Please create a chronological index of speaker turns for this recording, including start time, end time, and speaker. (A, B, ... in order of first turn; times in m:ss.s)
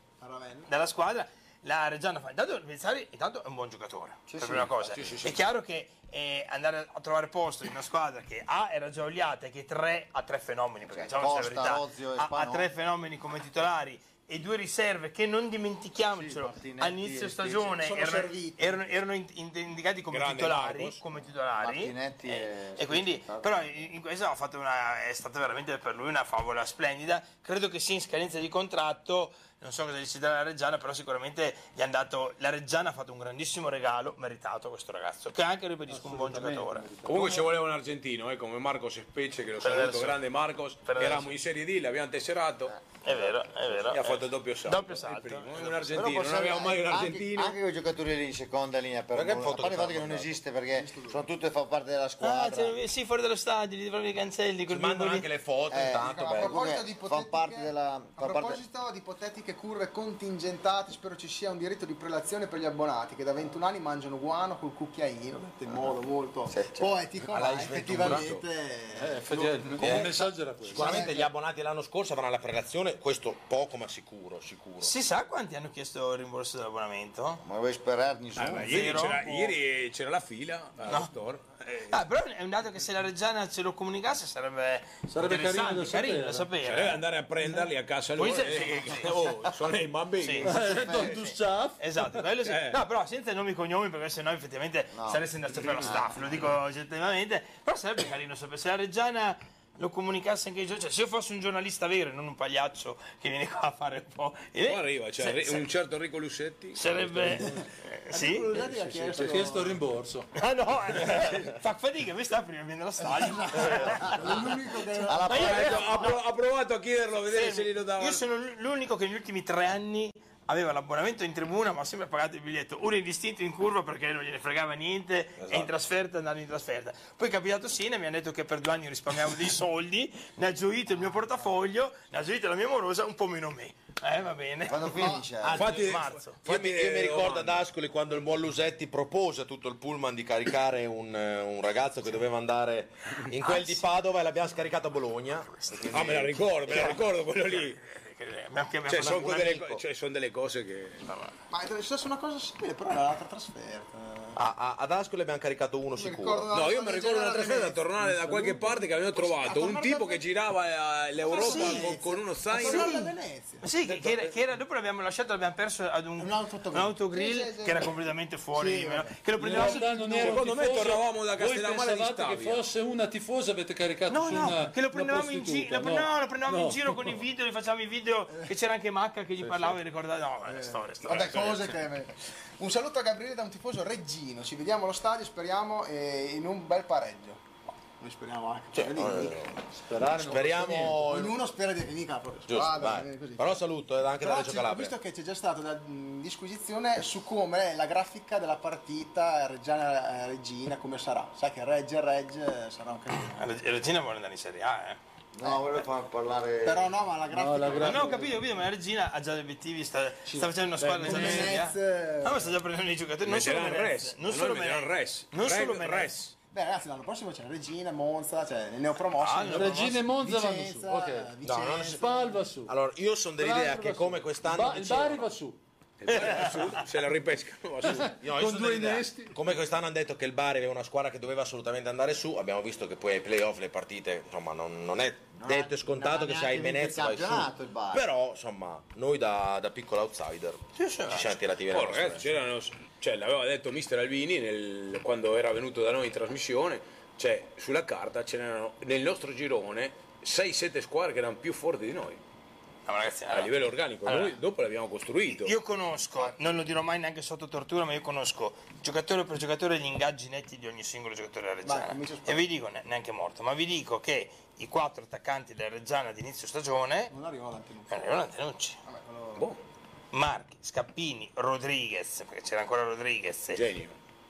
0:00.2-0:00.7 A
0:00.7-0:36.9 B
0:04.3-0:04.7 C
0:04.8-0:05.4 D
0:10.9-0:12.7 C
0:16.1-0:17.8 C
0:17.8-0:18.8 A
0:20.1-0:21.0 D
0:21.6-0:23.7 C
0:35.9-0:37.5 E
0:37.0-0:42.7 D
0:39.6-0:40.2 B
0:40.8-0:41.3 B
0:42.7-0:43.8 C
0:43.0-0:45.9 B
0:43.9-0:47.6 D
0:45.9-0:52.8 C
0:49.1-0:50.4 F
0:50.7-0:51.2 A
0:52.2-0:55.3 B
0:54.7-0:56.8 F
0:55.7-0:58.6 C
0:55.9-1:11.3 A
1:05.7-1:05.9 C
1:06.5-1:06.9 C
1:07.3-1:08.2 F
1:07.7-1:08.4 D
1:08.9-1:11.0 E
1:09.8-1:14.9 F
1:14.8-1:17.4 B
1:17.4-1:19.0 C
1:18.4-1:22.0 D
1:18.4-1:19.6 B
1:21.7-1:27.0 B
1:25.1-1:26.5 E
1:26.6-1:31.0 D
1:28.2-1:29.1 B
1:30.2-1:45.6 B
1:30.4-1:32.2 E
1:30.5-1:31.1 C
1:32.4-1:32.8 D
1:34.9-1:35.2 C
1:35.8-1:36.2 C
1:44.6-1:47.5 D
1:46.7-1:48.6 B
1:47.5-1:49.8 A
1:49.1-1:50.3 E
1:50.4-1:54.5 B
1:53.0-1:56.1 A
1:55.0-1:56.1 C
1:55.2-1:56.1 B
1:55.2-1:58.2 D
1:57.3-2:16.4 B
2:14.6-2:15.6 C
2:15.4-2:15.8 F
2:15.5-2:17.6 D
2:16.4-2:27.0 F
2:23.4-2:23.8 B
2:25.3-2:26.0 B
2:25.9-2:27.8 D
2:26.7-2:29.6 B
2:28.9-2:31.1 D
2:31.0-2:31.3 B
2:31.5-2:34.4 A
2:34.3-2:36.5 F
2:36.0-2:37.9 A
2:36.5-2:43.1 D
2:38.0-2:38.8 E
2:39.1-2:40.2 A
2:41.2-2:43.7 A
2:41.3-2:41.9 B
2:42.5-2:50.2 B
2:46.2-2:47.9 A
2:48.5-2:50.4 A
2:49.4-2:57.2 E
2:50.2-2:52.7 D
2:54.1-3:01.8 B
3:00.4-3:07.4 A
3:08.0-3:23.4 A
3:08.7-3:09.5 F
3:09.8-3:11.0 E
3:10.2-3:11.4 F
3:12.5-3:14.9 F
3:23.4-3:25.0 B
3:25.3-3:26.9 C
3:26.6-3:28.3 A
3:27.3-3:28.4 E
3:27.8-3:36.2 B
3:30.3-3:31.5 E
3:31.0-3:32.5 A
3:33.2-3:36.3 D
3:36.5-3:42.4 A
3:39.2-3:40.0 B
3:39.5-3:41.3 E
3:41.4-3:42.0 F
3:41.9-3:42.7 E
3:42.6-3:45.3 F
3:43.4-3:45.6 E
3:46.0-3:48.2 D
3:46.0-3:46.8 B
3:47.8-3:49.4 E
3:48.0-4:02.4 F
3:55.4-3:58.0 C
4:00.8-4:01.3 B
4:01.7-4:12.2 D
4:12.8-4:14.4 B
4:13.3-4:15.6 D
4:15.3-4:27.1 B
4:21.6-4:22.4 A
4:27.1-4:28.2 A
4:27.9-4:28.8 B
4:28.8-4:29.5 A
4:30.1-4:33.7 B
4:33.5-4:34.0 D